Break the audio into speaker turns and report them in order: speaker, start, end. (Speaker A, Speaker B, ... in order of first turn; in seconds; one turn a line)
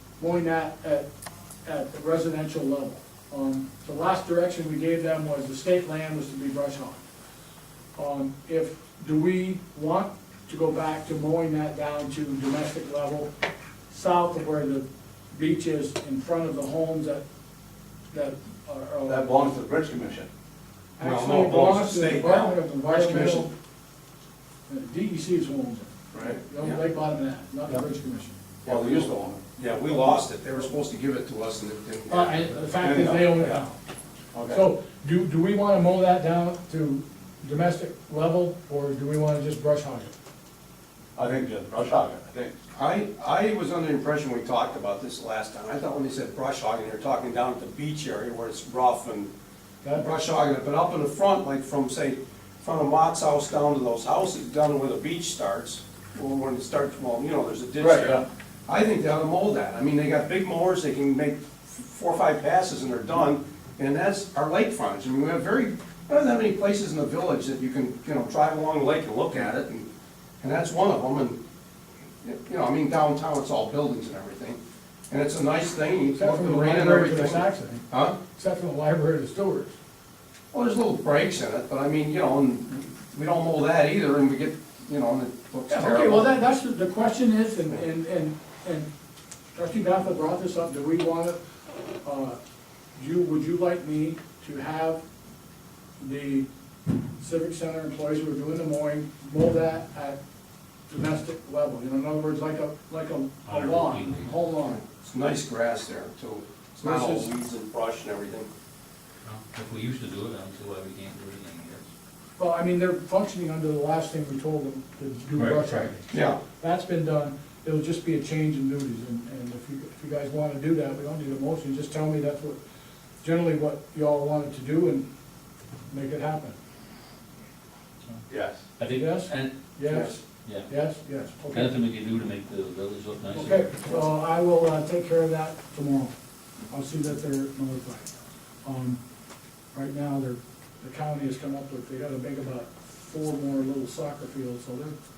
Speaker A: 0.2-1.1
Speaker A: 1.6-7.0
Speaker A: 8.0-13.3
Speaker A: 13.9-17.2
Speaker A: 18.1-19.4
Speaker B: 19.1-20.3
Speaker A: 21.0-23.5
Speaker C: 21.0-23.5
Speaker A: 24.7-28.4
Speaker B: 26.1-26.4
Speaker C: 26.5-26.8
Speaker C: 28.6-32.7
Speaker B: 28.6-29.4
Speaker A: 32.1-33.8
Speaker B: 32.7-33.6
Speaker B: 34.3-34.6
Speaker A: 34.5-40.1
Speaker B: 41.1-42.5
Speaker C: 42.7-49.3
Speaker C: 49.9-69.9
Speaker B: 57.8-58.2
Speaker C: 70.4-71.4
Speaker C: 72.2-74.6
Speaker C: 75.1-78.2
Speaker A: 76.2-79.7
Speaker C: 80.5-86.3
Speaker A: 85.7-88.9
Speaker A: 89.5-91.4
Speaker A: 92.0-92.4
Speaker A: 93.0-95.0
Speaker A: 96.0-96.5
Speaker A: 97.2-100.2
Speaker A: 100.9-104.8
Speaker D: 103.5-104.3
Speaker C: 104.6-108.5
Speaker A: 106.8-107.3
Speaker D: 109.2-111.9
Speaker A: 112.4-122.6
Speaker C: 116.1-116.4
Speaker A: 123.2-125.1
Speaker A: 125.9-126.5
Speaker B: 128.3-128.6
Speaker D: 128.8-129.5
Speaker A: 128.9-131.8
Speaker C: 129.9-130.1
Speaker D: 131.5-134.0
Speaker A: 133.3-136.1
Speaker A: 136.7-139.0
Speaker A: 139.7-145.0